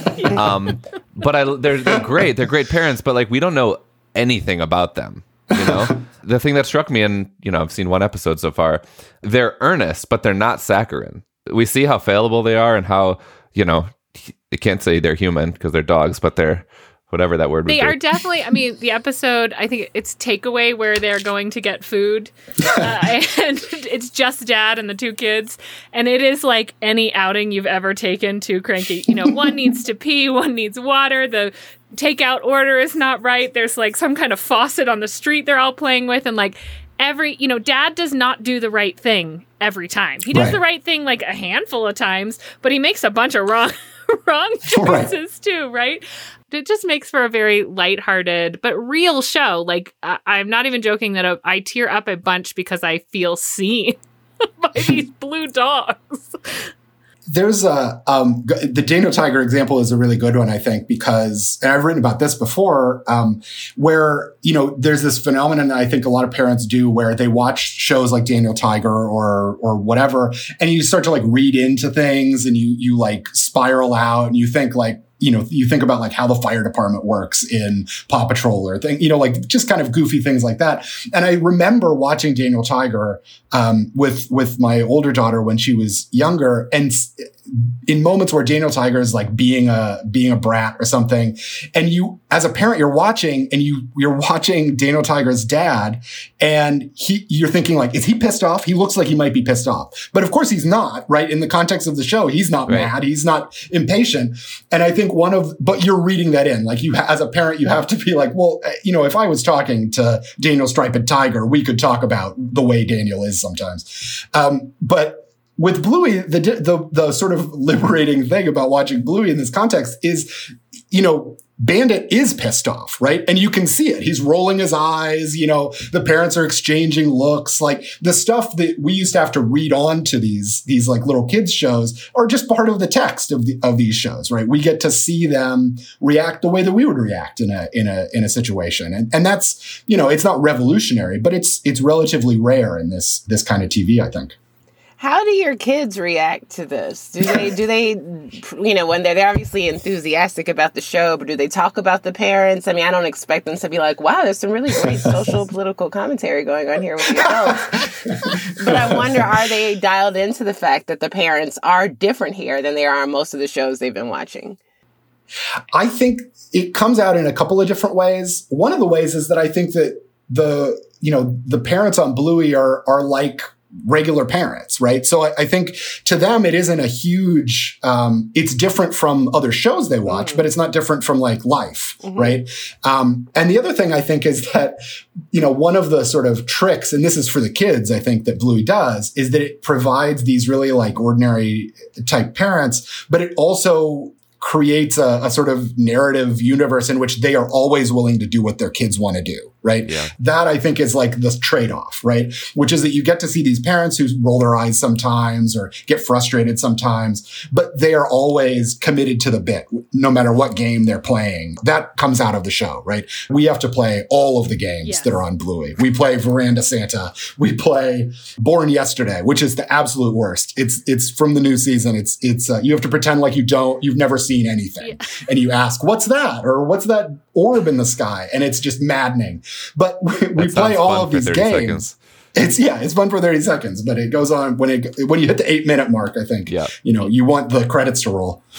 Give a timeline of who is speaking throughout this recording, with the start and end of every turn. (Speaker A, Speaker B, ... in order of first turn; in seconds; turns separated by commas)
Speaker A: 0.2-0.4, Speaker B: 0.3-18.0, Speaker A: 17.7-54.0, Speaker C: 40.3-40.6, Speaker C: 44.7-45.1, Speaker A: 54.6-56.7, Speaker C: 57.3-120.3, Speaker C: 120.9-144.3, Speaker D: 145.0-164.6, Speaker C: 157.2-157.8, Speaker C: 158.3-159.2, Speaker C: 165.7-184.8, Speaker D: 180.1-180.4, Speaker D: 182.0-182.4, Speaker C: 185.3-238.4, Speaker B: 199.9-200.1, Speaker A: 214.8-215.2, Speaker A: 224.8-225.2, Speaker B: 230.4-231.9